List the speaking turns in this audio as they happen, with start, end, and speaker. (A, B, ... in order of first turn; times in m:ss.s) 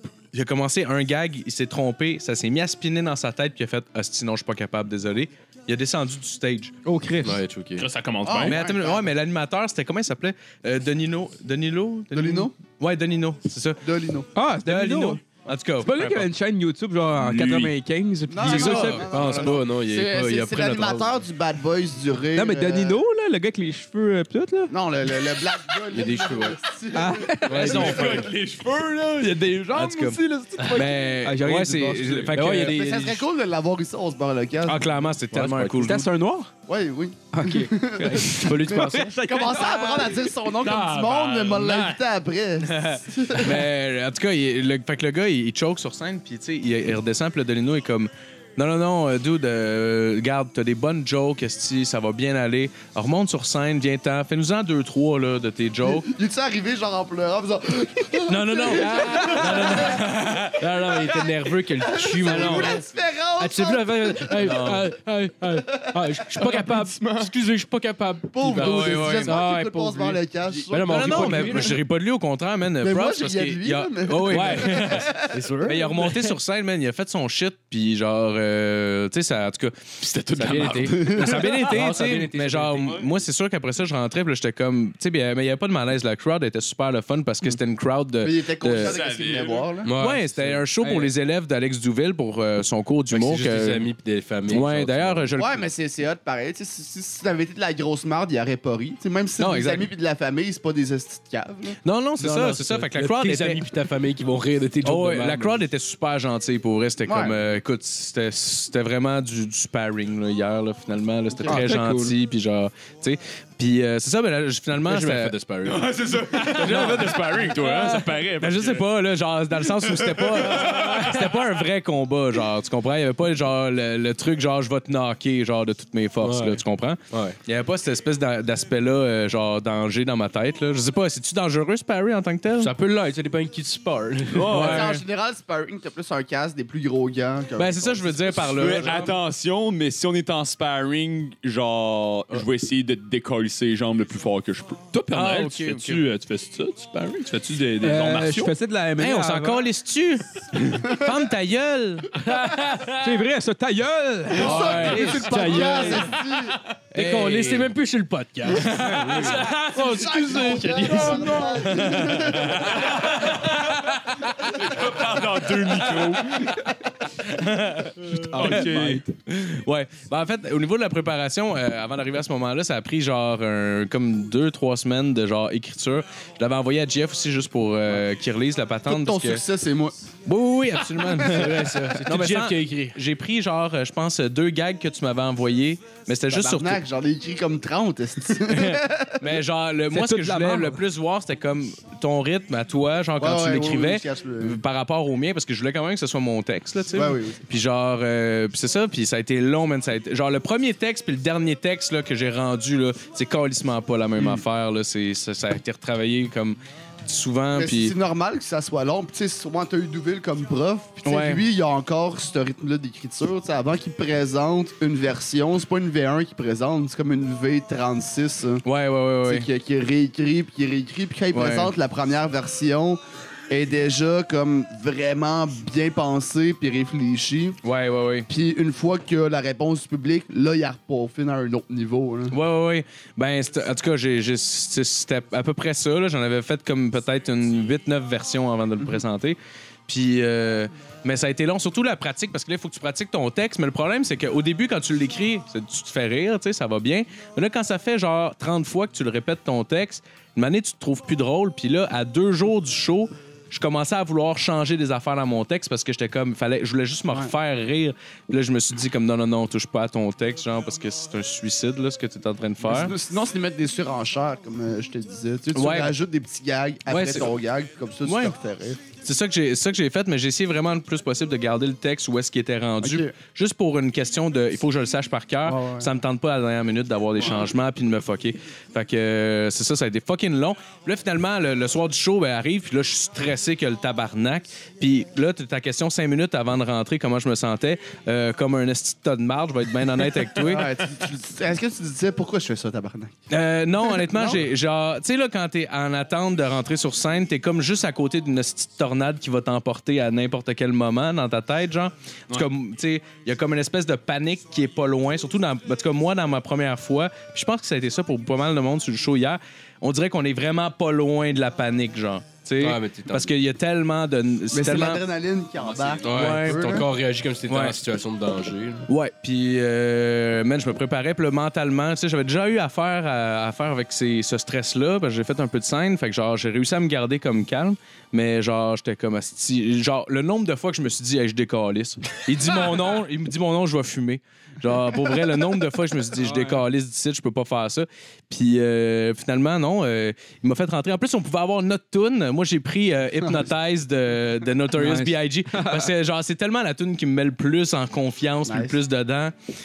0:00.3-0:06.7 A
0:06.8-0:07.4 B
0:07.2-0:07.9 C
0:07.8-0:08.6 D
0:08.2-0:09.1 E
0:08.4-0:13.8 A
0:12.1-0:12.5 E
0:13.8-0:14.3 E
0:14.3-0:15.2 B
0:14.6-0:16.3 A
0:15.8-0:19.1 B
0:17.2-0:17.7 A
0:18.3-0:23.0 E
0:18.4-0:19.6 A
0:19.0-0:20.3 C
0:20.1-0:21.1 A
0:22.3-0:24.7 B
0:24.7-0:28.3 E
0:25.9-0:26.6 A
0:26.9-0:27.9 B
0:27.5-0:28.2 C
0:27.5-0:28.3 A
0:27.5-0:30.9 D
0:29.7-0:32.8 A
0:30.6-0:30.8 C
0:31.0-0:32.4 B
0:32.3-0:33.2 C
0:32.6-0:34.8 E
0:34.6-0:36.1 A
0:35.3-0:35.9 C
0:35.8-0:36.5 B
0:36.7-0:43.7 E
0:37.3-0:40.3 B
0:38.3-0:39.2 C
0:40.5-0:42.0 D
0:43.3-0:56.1 A
0:55.8-1:00.0 E
0:58.3-1:00.6 A
0:58.7-1:02.9 C
1:01.8-1:04.5 E
1:02.3-1:02.7 A
1:03.4-1:11.8 C
1:04.4-1:04.8 A
1:06.4-1:07.3 D
1:08.3-1:11.8 E
1:08.4-1:09.4 A
1:10.8-1:15.1 A
1:12.8-1:15.4 E
1:14.2-1:16.3 C
1:15.6-1:29.0 A
1:20.0-1:23.1 C
1:20.9-1:21.6 E
1:28.2-1:29.9 E
1:28.8-1:29.7 F
1:29.8-1:30.6 C
1:30.0-1:33.9 A
1:30.8-1:31.1 B
1:33.1-1:35.3 C
1:34.5-1:35.7 A
1:35.4-1:41.8 E
1:39.4-1:39.9 A
1:41.8-1:43.7 A
1:42.2-1:45.6 C
1:44.8-1:55.3 A
1:47.0-1:47.4 E
1:51.3-1:51.6 E
1:51.5-1:52.1 B
1:54.8-1:55.9 C
1:55.8-1:58.8 D
1:55.9-1:58.6 F
1:56.6-1:57.2 A
1:56.6-1:57.1 C
1:58.4-2:12.7 A
2:00.6-2:01.2 C
2:06.2-2:07.4 C
2:12.6-2:14.9 C
2:14.4-2:15.0 A
2:14.5-2:19.0 E
2:14.6-2:14.8 F
2:17.6-2:19.1 A
2:18.5-2:24.8 F
2:24.9-2:28.5 D
2:25.1-2:26.0 A
2:27.8-2:29.7 B
2:29.0-2:32.1 A
2:30.8-2:31.1 E
2:32.1-2:33.2 C
2:33.0-2:36.1 B
2:34.3-2:36.6 E
2:34.4-2:36.0 A
2:35.3-2:35.9 C
2:36.9-2:41.9 C
2:36.9-2:37.7 A
2:38.5-2:39.5 A
2:38.7-2:39.4 B
2:39.8-2:42.9 E
2:40.8-2:41.6 D
2:41.6-2:46.5 A
2:44.5-2:46.6 D
2:47.2-2:48.7 A
2:48.1-2:49.0 B
2:48.3-2:49.1 D
2:49.3-2:59.4 A
2:58.9-3:00.0 E
3:00.2-3:06.8 A
3:01.2-3:03.0 C
3:06.3-3:09.4 E
3:08.5-3:27.9 A
3:09.9-3:10.8 B
3:13.2-3:14.6 E
3:16.9-3:17.4 E
3:24.2-3:24.4 E
3:27.5-3:38.6 E
3:31.0-3:31.4 A
3:38.6-3:39.5 A
3:39.2-3:47.6 E
3:41.3-3:41.7 A
3:47.6-3:48.3 A
3:48.3-3:52.3 E
3:52.3-4:22.9 A
4:22.6-4:28.8 E
4:25.5-4:26.0 A
4:26.9-4:27.3 A
4:28.0-4:28.3 A
4:28.9-4:50.7 A
4:32.8-4:33.1 E
4:35.4-4:35.9 E
4:50.4-4:53.1 E
4:53.3-5:15.0 A
4:53.9-4:54.4 E
5:12.6-5:13.3 C
5:14.5-5:16.9 E
5:15.6-5:16.1 F
5:16.0-5:18.9 C
5:16.0-5:16.8 A
5:17.5-5:17.8 A
5:18.9-5:49.3 A
5:36.2-5:36.6 B
5:44.8-5:45.9 B
5:48.4-5:48.8 E